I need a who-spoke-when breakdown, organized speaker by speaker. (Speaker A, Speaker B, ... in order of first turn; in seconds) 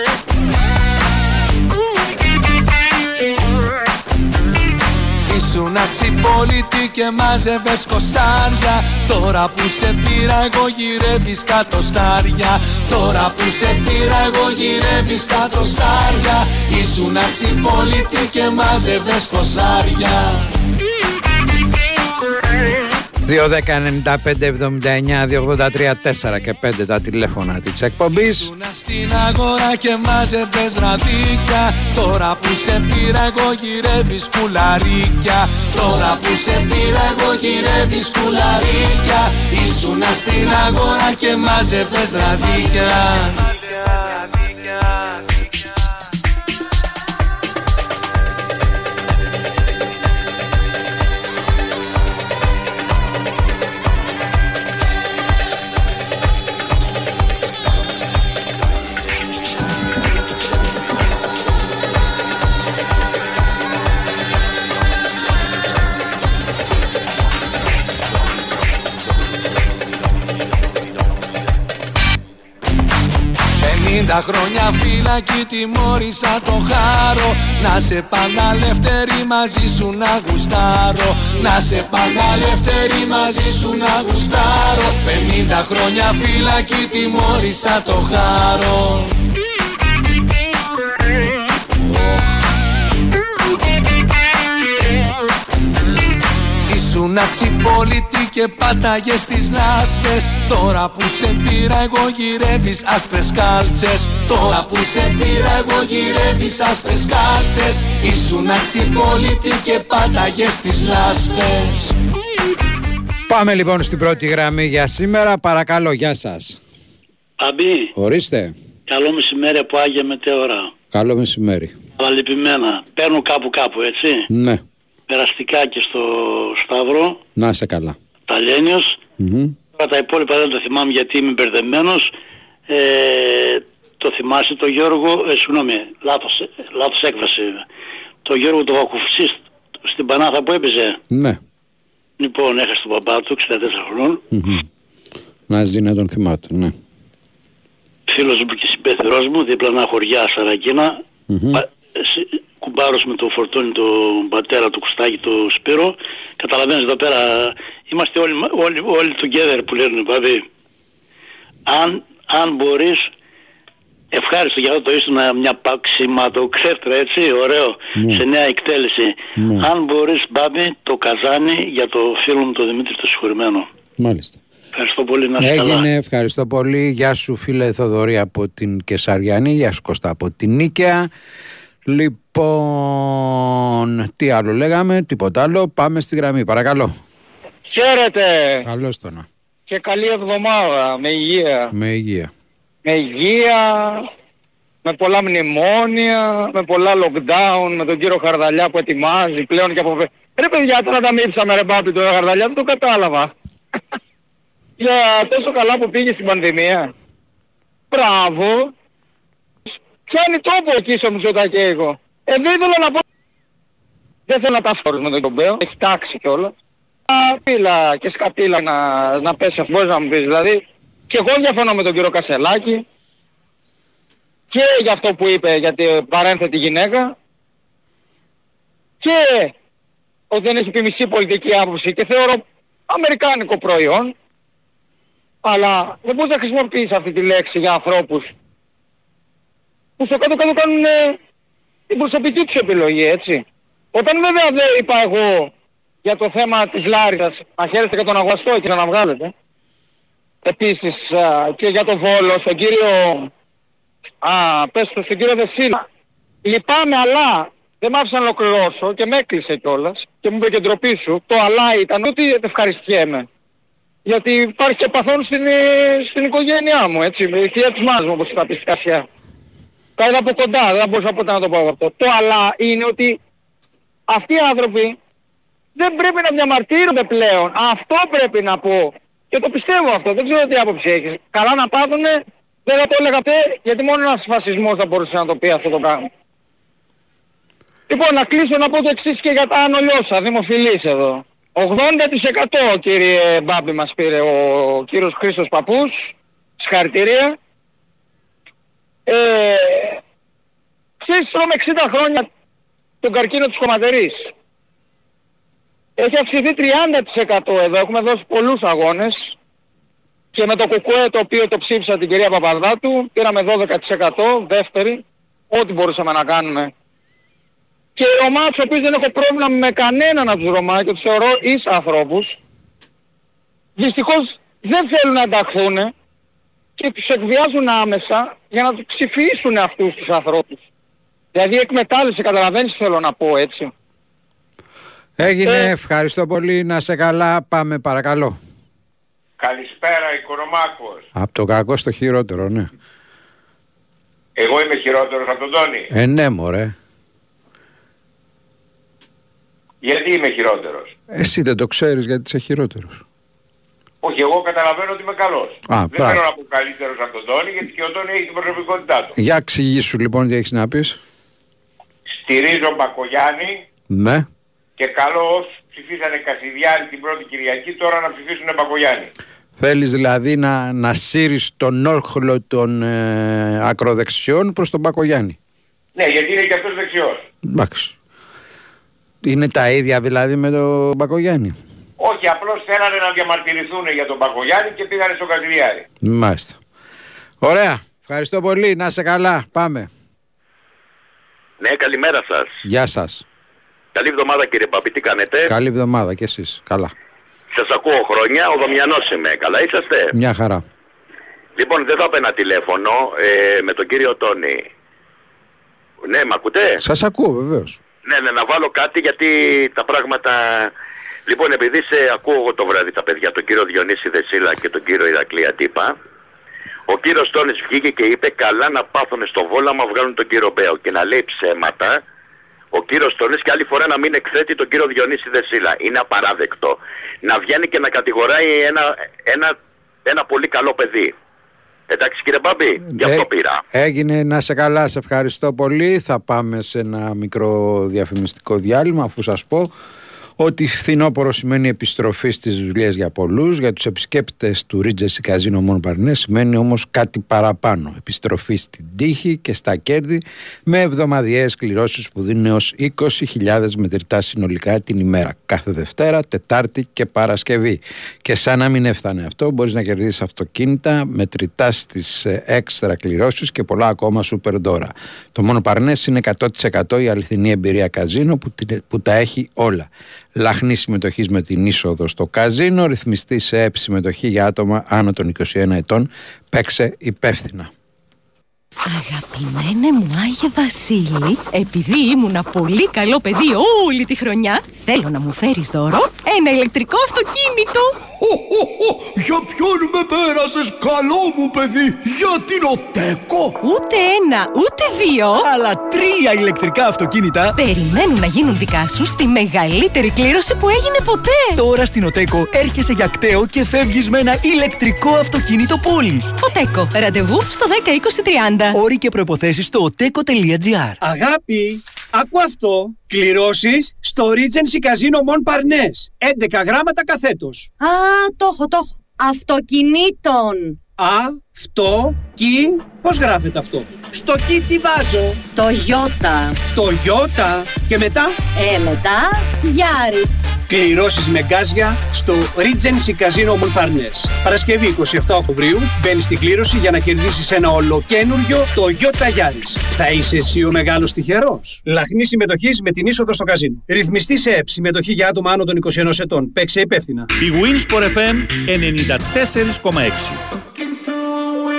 Speaker A: 5.3-20.5, 28.1-43.4, 73.6-89.1, 96.7-111.9
Speaker B: 23.2-28.5, 113.3-116.6, 118.0-118.5, 120.9-121.7, 124.3-124.6, 127.3-128.0, 129.2-129.5, 141.1-141.4, 144.3-144.6, 145.5-146.7, 151.3-151.6, 167.9-168.2, 169.4-169.7, 174.0-174.4, 175.4-181.1, 181.9-186.9, 188.6-189.3, 191.7-192.3, 335.2-338.4, 341.1-342.7, 345.9-346.7, 351.1-353.0, 355.7-356.2, 359.1-361.0, 363.9-364.3, 369.6-375.4, 377.4-377.9, 379.2-381.6, 386.0-386.6, 387.4-389.9, 392.6-393.2, 395.5-396.9, 400.1-400.6, 406.8-407.8, 432.9-439.7, 440.4-477.7
Speaker C: 117.4-117.9, 118.9-120.7, 122.0-124.3, 125.1-127.2, 128.3-129.0, 129.8-132.2, 132.7-137.7, 138.2-141.0, 142.2-144.2, 148.1-160.4, 161.7-163.1, 164.1-173.7, 174.7-175.8
Speaker D: 187.7-188.6, 189.7-191.7, 192.8-194.1, 194.8-203.3, 204.8-206.9, 207.9-208.7, 210.1-213.0, 214.3-216.5, 217.1-222.8, 224.5-227.1, 229.0-229.5, 230.3-234.1, 235.4-238.3, 240.0-241.2, 241.9-245.5, 246.0-249.3, 250.4-253.3, 254.2-255.8, 256.4-263.3, 264.1-269.0, 270.0-273.2, 274.1-274.9, 275.8-286.1, 287.9-296.1, 296.6-297.4, 299.1-300.0, 301.0-302.3, 303.0-304.3, 306.0-309.3, 310.3-316.7, 318.0-322.3, 323.8-325.9, 326.8-330.6, 331.3-333.7
Speaker E: 339.4-341.0, 344.4-345.9, 349.8-350.9, 354.0-359.1, 362.1-363.6, 364.8-369.1, 375.9-377.2, 382.0-385.8
Speaker F: 391.6-392.5, 393.9-395.5, 397.5-400.1, 401.6-404.7, 406.0-406.8, 408.0-410.7, 411.3-415.9, 416.9-422.0, 422.7-429.5, 430.1-431.1, 431.9-433.6
Speaker G: 478.9-487.9, 493.6-495.4, 497.5-501.6, 506.4-508.8
Speaker H: 488.1-493.6, 495.4-497.6, 501.6-506.3, 508.7-511.0
Speaker I: 511.0-517.7, 521.0-525.4, 526.7-528.3, 530.7-547.3
Speaker J: 517.8-520.8, 525.5-526.7, 528.5-530.5
Speaker K: 547.4-550.4